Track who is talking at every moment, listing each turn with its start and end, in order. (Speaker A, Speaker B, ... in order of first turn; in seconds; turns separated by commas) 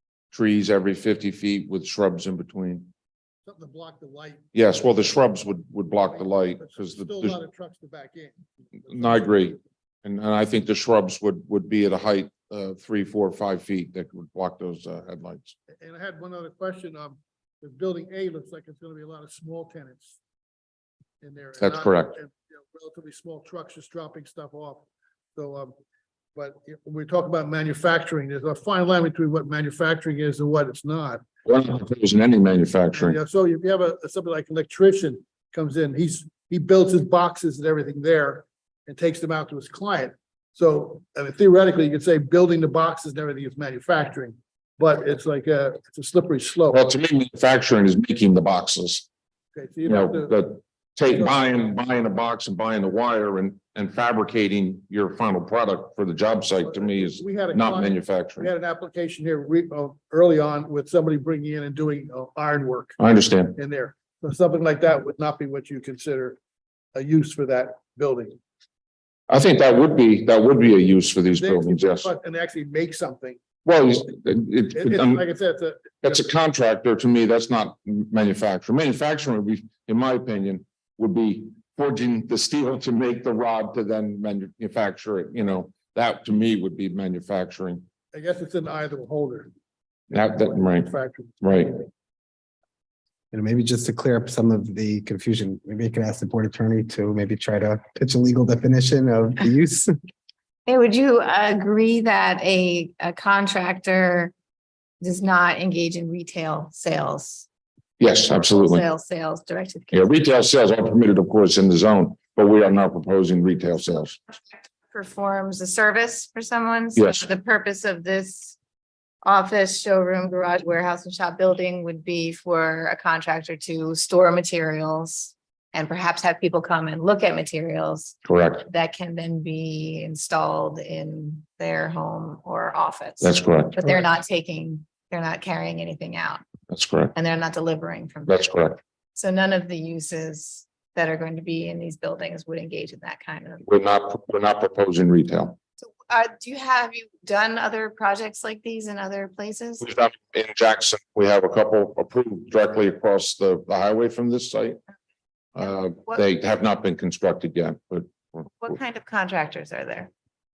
Speaker A: 0.3-2.9, Speaker B: 3.4-4.4, Speaker A: 4.5-7.4, Speaker B: 6.0-8.3, Speaker A: 8.9-15.6, Speaker B: 15.8-20.1, Speaker B: 21.2-25.7, Speaker A: 21.6-22.1, Speaker B: 26.4-31.2, Speaker A: 31.4-33.2, Speaker B: 33.0-46.8, Speaker A: 46.7-49.0, Speaker B: 49.5-50.4, Speaker A: 49.9-58.5, Speaker B: 51.1-51.6, Speaker B: 56.6-63.0, Speaker A: 63.0-63.5, Speaker B: 63.5-66.4, Speaker B: 66.9-68.3, Speaker A: 69.3-72.1, Speaker B: 71.4-73.4, Speaker A: 73.6-75.2, Speaker B: 74.7-76.2, Speaker A: 76.0-87.8, Speaker B: 88.1-89.5, Speaker A: 90.1-90.9, Speaker B: 90.5-91.4, Speaker A: 91.4-91.8, Speaker C: 93.3-99.9, Speaker D: 100.7-104.3, Speaker D: 105.0-107.5, Speaker A: 108.0-108.8, Speaker D: 108.3-110.1, Speaker A: 109.9-114.2, Speaker D: 114.8-118.5, Speaker A: 117.0-117.2, Speaker D: 119.2-128.2, Speaker A: 128.2-128.7, Speaker D: 128.7-136.4, Speaker A: 133.2-133.9, Speaker A: 136.7-137.1, Speaker D: 137.1-138.5, Speaker A: 138.3-138.8, Speaker D: 139.1-143.6, Speaker A: 143.6-145.6, Speaker D: 145.8-149.8, Speaker A: 149.8-154.8, Speaker A: 155.6-158.5, Speaker D: 155.6-156.2, Speaker D: 158.6-160.1